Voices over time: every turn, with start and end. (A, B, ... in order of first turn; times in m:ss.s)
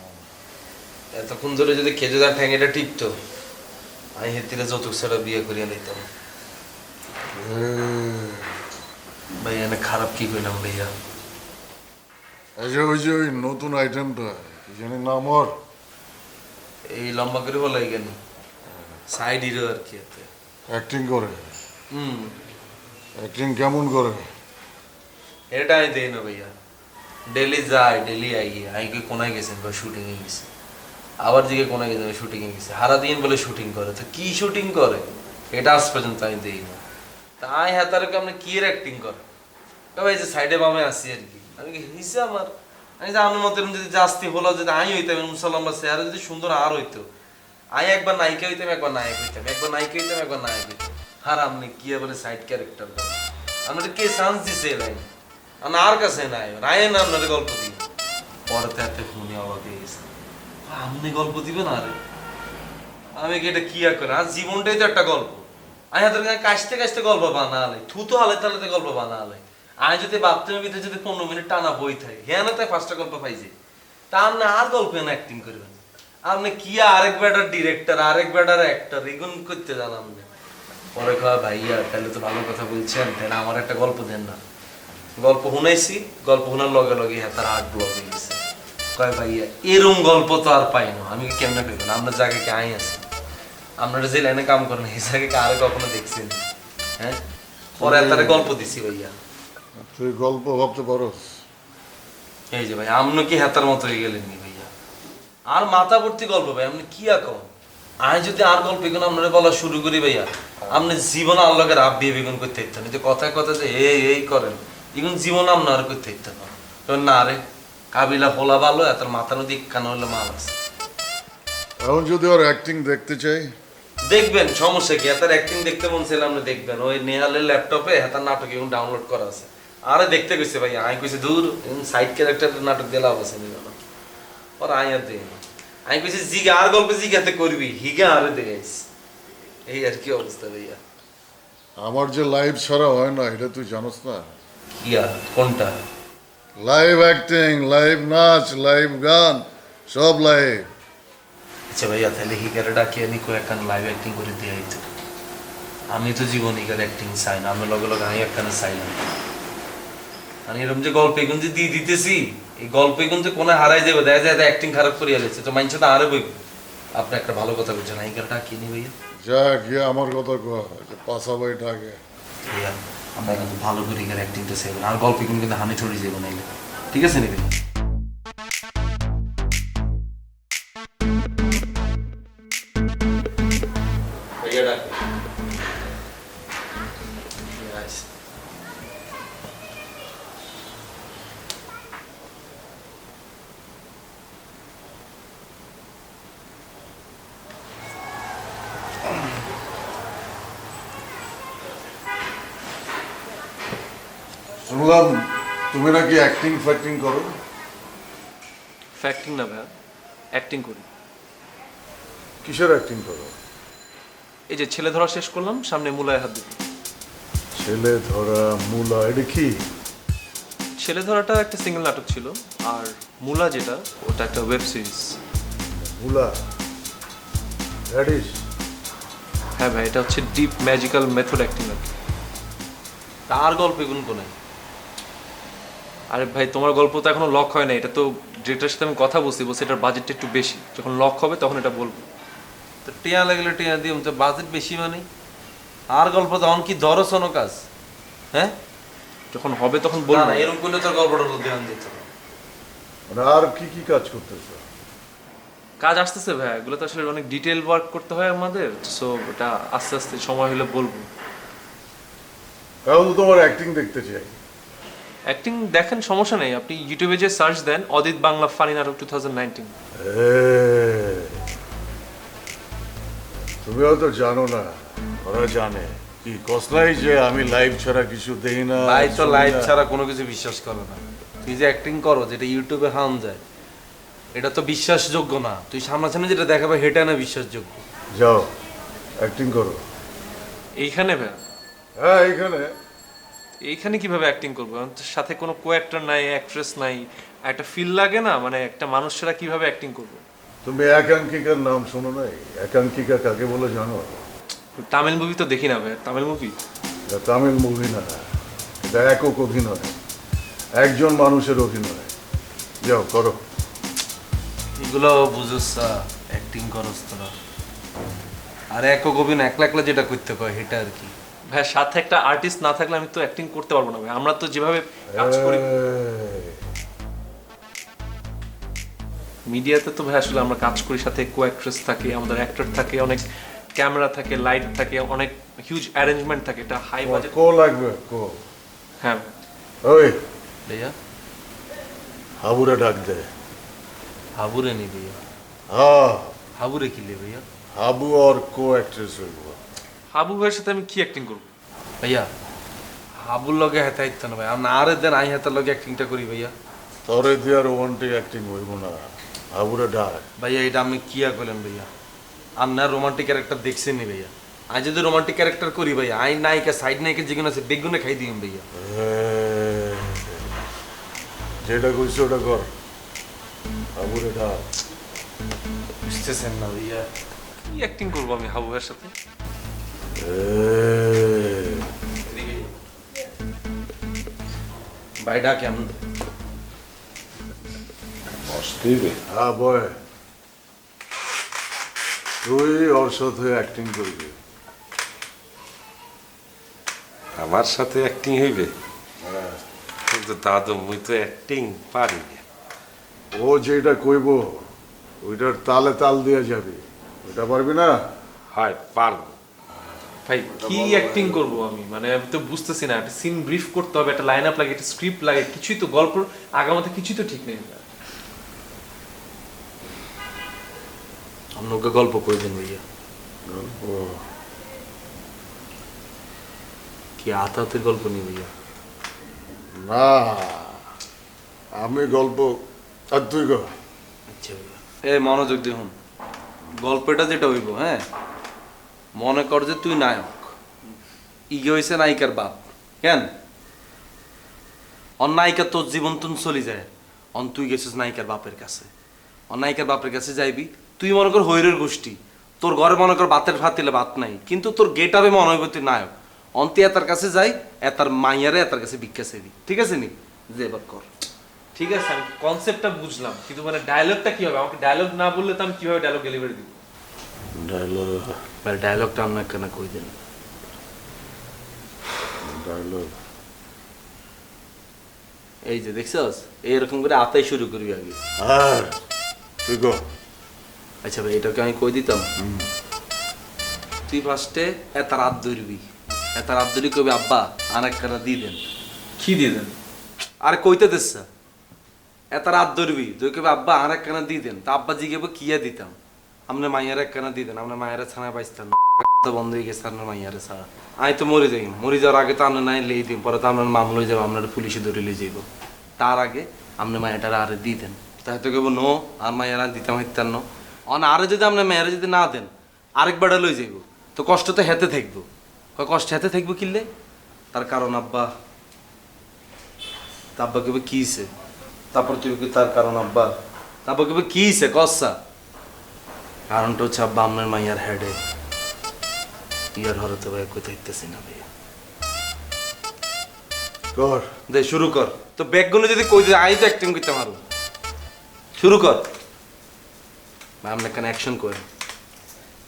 0:01.1-0:03.1 A
0:04.2-0:06.0 A
0:07.3-0:08.5 B
0:09.4-0:10.9 A
0:12.6-0:15.5 B
0:16.9-0:18.2 A
0:19.1-0:20.3 A
0:20.7-0:21.5 B
0:21.9-0:22.4 A
0:23.2-0:24.2 B
0:25.5-0:26.5 A
0:27.3-0:30.5 A
0:31.2-0:36.8 A
0:37.4-0:39.2 A
0:39.9-0:47.1 A
0:47.7-0:55.1 A
0:55.6-0:57.8 A
0:58.5-1:00.0 A
1:00.6-1:02.0 A
1:03.2-1:13.5 A
1:14.1-1:20.3 A
1:20.9-1:24.4 A
1:25.2-1:28.4 A
1:29.0-1:33.1 A
1:33.8-1:36.4 A
1:37.8-1:38.5 B
1:37.8-1:39.1 A
1:39.8-1:41.2 B
1:42.5-1:44.7 A
1:45.5-1:47.5 A
1:48.0-1:57.4 A
1:57.9-2:00.6 A
2:01.8-2:03.5 B
2:04.0-2:13.8 A
2:14.6-2:18.8 A
2:19.7-2:20.8 A
2:21.8-2:24.3 B
2:24.8-2:25.7 A
2:26.6-2:30.7 B
2:31.7-2:34.9 A
2:35.9-2:39.1 A
2:40.5-2:46.3 A
2:46.9-2:48.9 A
2:49.2-2:52.0 B
2:52.4-2:57.5 A
3:04.4-3:05.0 A
3:07.5-3:08.0 A
3:24.6-3:27.3 B
3:29.0-3:29.7 C
3:30.3-3:30.8 C
3:32.4-3:33.4 B
3:34.5-3:36.6 C
3:37.6-3:39.6 B
3:40.8-3:45.2 C
3:45.8-3:46.3 B
3:47.9-3:48.4 B
3:49.6-3:51.9 C
3:53.3-3:54.3 A
3:56.1-4:02.0 C
4:02.8-4:05.0 A
4:05.9-4:07.6 A
4:09.3-4:10.5 C
4:10.1-4:12.1 A
4:13.1-4:14.6 B
4:15.8-4:21.1 C
4:22.8-4:24.4 B
4:25.3-4:29.7 C
4:30.0-4:31.4 B
4:33.6-4:39.7 B
4:38.8-4:43.4 A
4:44.3-4:47.8 A
4:48.1-4:48.5 B
4:49.2-4:49.8 B
4:50.8-4:51.4 C
4:52.0-4:52.7 B
4:53.6-5:00.2 C
5:00.6-5:04.2 B
5:04.8-5:06.6 C
5:07.1-5:08.2 B
5:08.8-5:09.9 B
5:10.8-5:12.1 B
5:12.8-5:13.4 B
5:14.8-5:17.3 A
5:18.7-5:21.1 A
5:21.5-5:25.7 C
5:25.1-5:26.6 B
5:29.4-5:37.3 C
5:37.0-5:38.4 B
5:39.0-5:39.3 C
5:39.8-5:40.2 B
5:40.6-5:40.9 A
5:42.4-5:43.3 B
5:44.4-5:45.2 A
5:45.7-5:46.3 B
5:46.6-5:47.4 A
5:47.8-5:49.6 B
5:50.1-5:51.4 C
5:52.0-5:52.3 A
5:53.1-5:56.5 A
5:57.0-5:59.0 B
5:59.5-6:00.2 B
6:00.4-6:01.9 A
6:02.6-6:08.6 A
6:08.8-6:10.4 B
6:11.6-6:12.7 B
6:14.0-6:14.6 B
6:16.0-6:17.1 A
6:17.7-6:19.1 C
6:20.2-6:21.9 B
6:22.3-6:22.6 A
6:25.2-6:26.0 A
6:28.3-6:29.2 D
6:29.3-6:29.9 B
6:32.4-6:34.4 B
6:37.4-6:38.7 D
6:39.2-6:39.6 B
6:40.1-6:42.4 D
6:43.3-6:44.7 B
6:45.2-6:48.0 B
6:48.5-6:49.3 D
6:50.2-6:57.8 C
7:01.6-7:02.8 A
7:03.5-7:04.2 B
7:07.2-7:08.5 A
7:09.8-7:10.8 B
7:11.8-7:12.5 B
7:13.1-7:13.7 B
7:14.3-7:15.9 A
7:16.8-7:18.0 A
7:19.1-7:20.6 A
7:21.5-7:23.3 A
7:25.2-7:28.9 A
7:29.5-7:41.1 A
7:41.8-7:46.8 C
7:47.5-7:48.4 B
7:48.6-7:50.2 A
7:52.4-7:53.1 B
7:55.6-7:58.2 A
7:58.4-7:58.9 B
7:59.6-8:00.0 B
8:01.0-8:02.3 A
8:02.4-8:02.6 B
8:04.1-8:08.6 A
8:09.2-8:09.7 C
8:10.4-8:11.3 A
8:12.3-8:16.0 A
8:16.5-8:25.4 A
8:26.0-8:36.9 A
8:37.5-8:38.3 A
8:40.4-8:41.3 A
8:41.9-8:43.3 A
8:43.8-8:45.2 A
8:46.5-8:48.2 A
8:49.8-8:51.5 A
8:53.9-8:54.2 B
8:54.5-8:57.4 A
8:58.6-8:59.1 A
9:00.6-9:01.6 A